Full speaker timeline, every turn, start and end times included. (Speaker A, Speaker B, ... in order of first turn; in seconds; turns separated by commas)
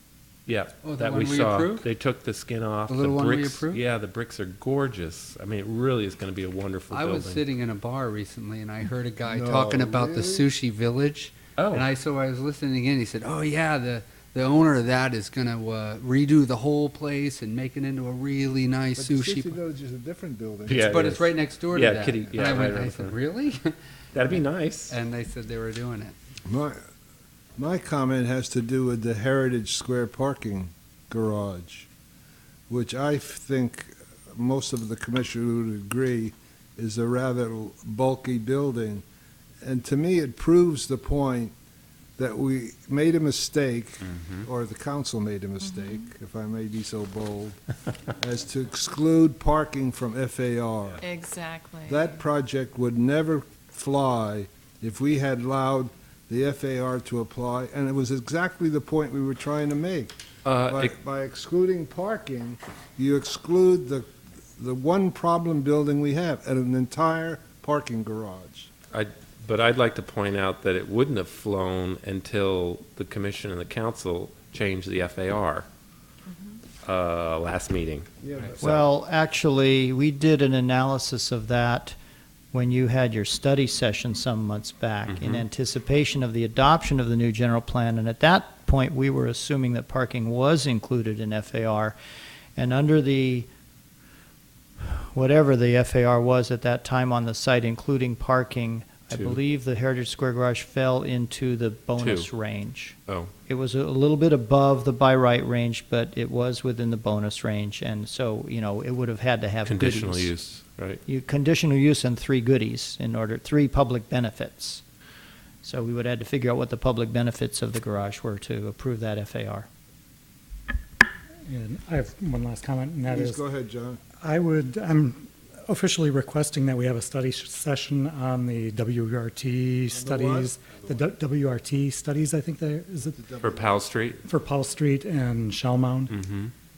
Speaker A: 0.5-7.4, Speaker B: 0.8-1.9, Speaker B: 2.9-3.8, Speaker B: 6.9-19.6, Speaker C: 9.3-10.5, Speaker A: 11.6-11.9, Speaker C: 19.0-21.1, Speaker A: 20.7-23.2, Speaker B: 20.8-23.8, Speaker A: 24.1-24.9, Speaker B: 24.3-26.2, Speaker C: 26.5-26.8, Speaker C: 27.6-31.9, Speaker C: 32.7-39.0, Speaker C: 39.6-41.5, Speaker C: 42.2-47.6, Speaker A: 44.0-44.5, Speaker D: 45.6-46.1, Speaker C: 48.2-51.0, Speaker D: 51.0-52.2, Speaker C: 51.9-60.1, Speaker A: 60.5-60.9, Speaker C: 60.6-68.7, Speaker A: 68.9-75.7, Speaker D: 76.3-76.6, Speaker A: 76.8-78.1, Speaker C: 78.2-78.9, Speaker E: 78.6-82.0, Speaker E: 82.5-92.0, Speaker A: 85.1-85.5, Speaker E: 92.6-93.5, Speaker E: 94.8-110.4, Speaker A: 102.0-102.3, Speaker A: 109.7-111.0, Speaker E: 111.1-114.8, Speaker E: 115.6-119.7, Speaker F: 121.5-123.4, Speaker C: 123.1-124.0, Speaker F: 124.2-133.2, Speaker C: 129.9-130.7, Speaker C: 133.2-133.9, Speaker A: 133.4-134.2, Speaker F: 134.2-136.2, Speaker A: 136.1-136.5